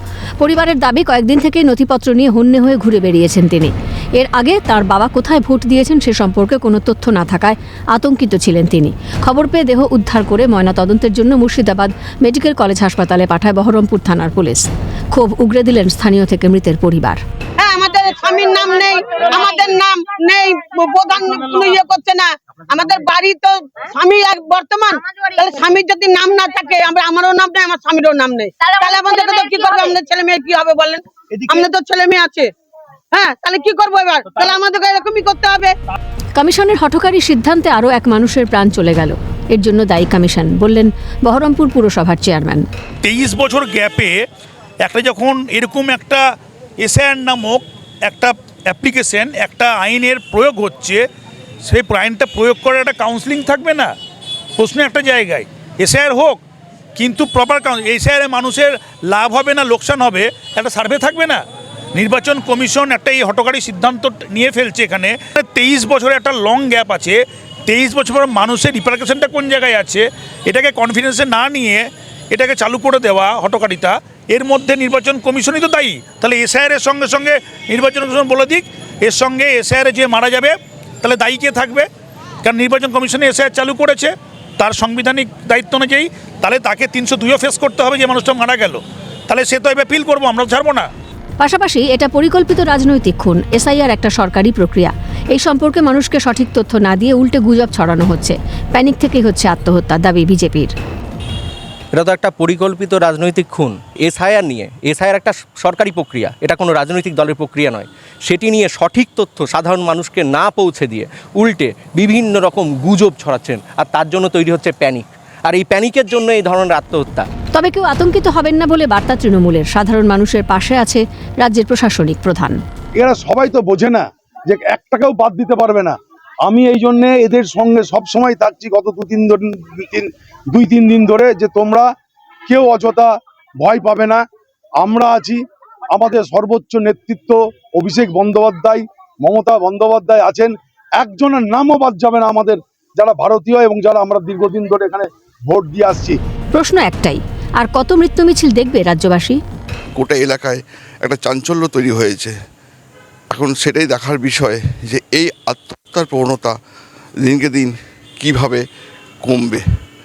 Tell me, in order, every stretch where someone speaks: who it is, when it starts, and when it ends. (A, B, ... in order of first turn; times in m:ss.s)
0:00.4-0:17.2 A
0:17.6-0:32.5 B
0:33.1-0:35.8 B
0:36.4-0:42.6 A
0:43.0-0:44.2 C
0:44.8-0:46.2 C
0:46.8-0:51.0 C
0:51.7-0:53.9 C
0:54.6-0:56.4 C
0:57.0-1:01.4 C
1:02.0-1:21.9 C
1:22.4-1:30.9 C
1:31.4-1:40.7 A
1:42.0-1:57.3 D
1:57.6-2:02.6 A
2:03.0-2:11.9 E
2:12.5-2:14.2 E
2:14.8-2:26.2 E
2:26.5-2:29.4 A
2:30.0-2:32.4 F
2:33.3-2:36.5 F
2:37.2-2:38.6 F
2:39.2-2:39.6 F